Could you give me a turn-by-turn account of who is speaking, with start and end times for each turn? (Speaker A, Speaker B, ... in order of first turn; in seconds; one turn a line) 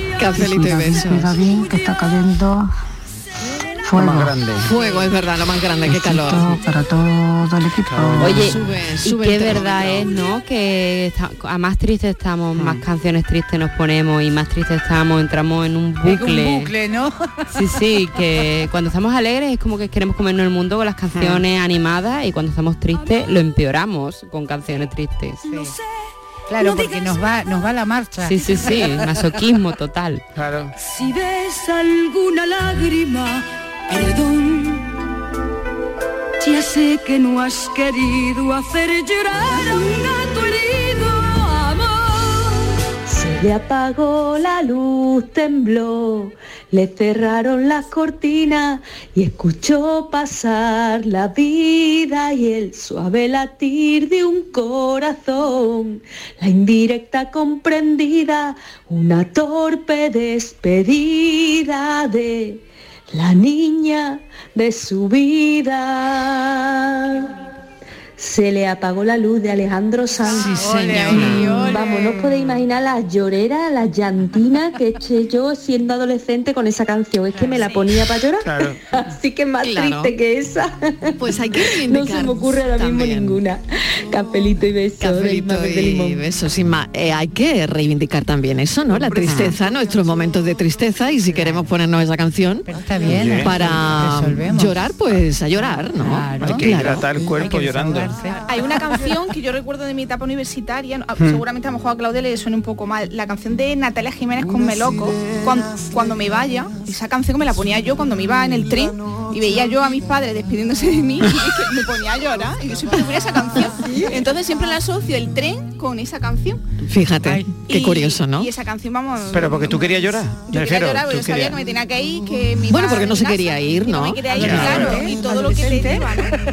Speaker A: 0.2-1.3
Speaker B: 0.3-2.7
Speaker B: 3.8-4.4
Speaker C: 3.9-4.7
Speaker A: 4.5-6.6
Speaker B: 5.8-8.5
Speaker C: 7.8-8.2
Speaker A: 8.2-10.1
Speaker D: 8.2-16.7
Speaker E: 16.0-17.6
Speaker D: 17.5-25.4
Speaker F: 25.4-25.8
Speaker E: 25.5-25.7
Speaker E: 26.5-29.0
Speaker F: 26.6-27.2
Speaker D: 28.2-30.2
Speaker C: 30.3-30.7
Speaker F: 30.8-34.9
Speaker F: 36.4-42.7
Speaker G: 43.1-62.6
Speaker G: 63.1-66.5
Speaker G: 68.2-78.4
Speaker A: 70.3-71.4
Speaker E: 70.3-72.2
Speaker E: 77.3-77.7
Speaker C: 78.4-78.8
Speaker G: 79.1-80.7
Speaker A: 79.6-80.1
Speaker A: 81.2-83.4
Speaker G: 81.9-86.1
Speaker A: 85.0-92.8
Speaker E: 91.3-91.6
Speaker E: 92.7-94.9
Speaker C: 93.1-93.7
Speaker A: 93.4-97.2
Speaker E: 95.5-98.5
Speaker C: 96.4-98.1
Speaker H: 98.4-116.6
Speaker C: 101.2-101.4
Speaker A: 116.8-118.5
Speaker E: 117.2-117.5
Speaker H: 117.7-126.4
Speaker C: 119.3-121.6
Speaker A: 122.7-124.6
Speaker C: 124.3-125.1
Speaker E: 124.5-125.2